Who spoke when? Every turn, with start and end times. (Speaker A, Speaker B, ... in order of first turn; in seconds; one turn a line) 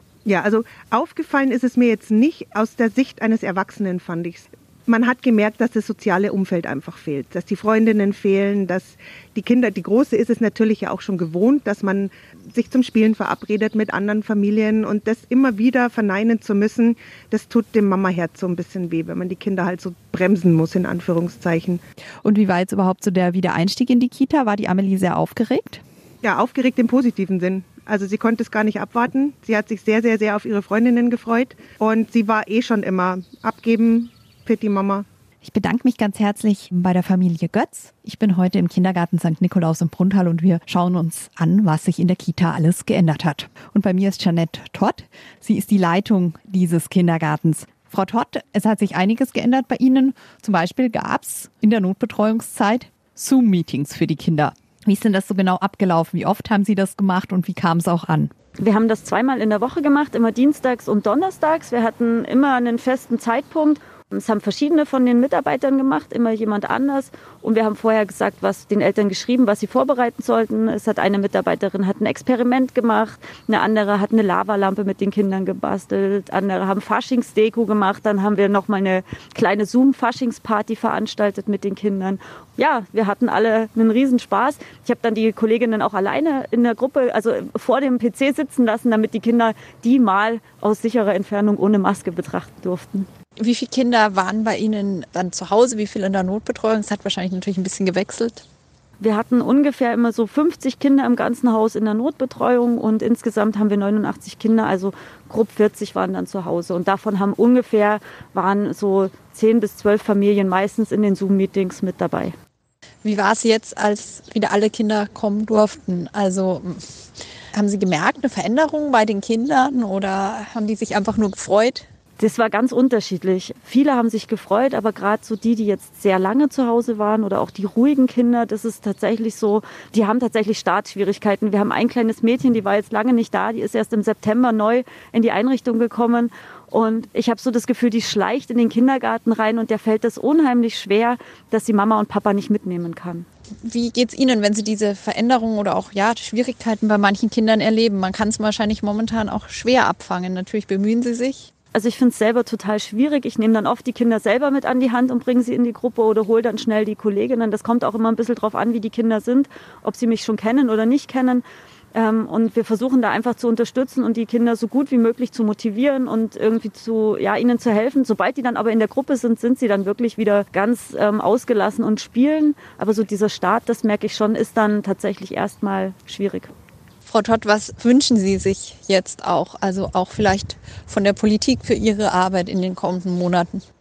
Speaker A: 0.2-21.8
Speaker B: 22.2-25.8
Speaker A: 26.2-35.0
Speaker B: 35.4-58.3
Speaker C: 58.6-93.1
Speaker B: 93.4-98.4
Speaker C: 99.0-112.3
Speaker B: 113.0-116.8
Speaker B: 117.5-121.8
Speaker C: 122.2-143.3
Speaker B: 143.6-151.5
Speaker C: 151.7-161.4
Speaker C: 161.9-176.5
Speaker B: 177.1-183.6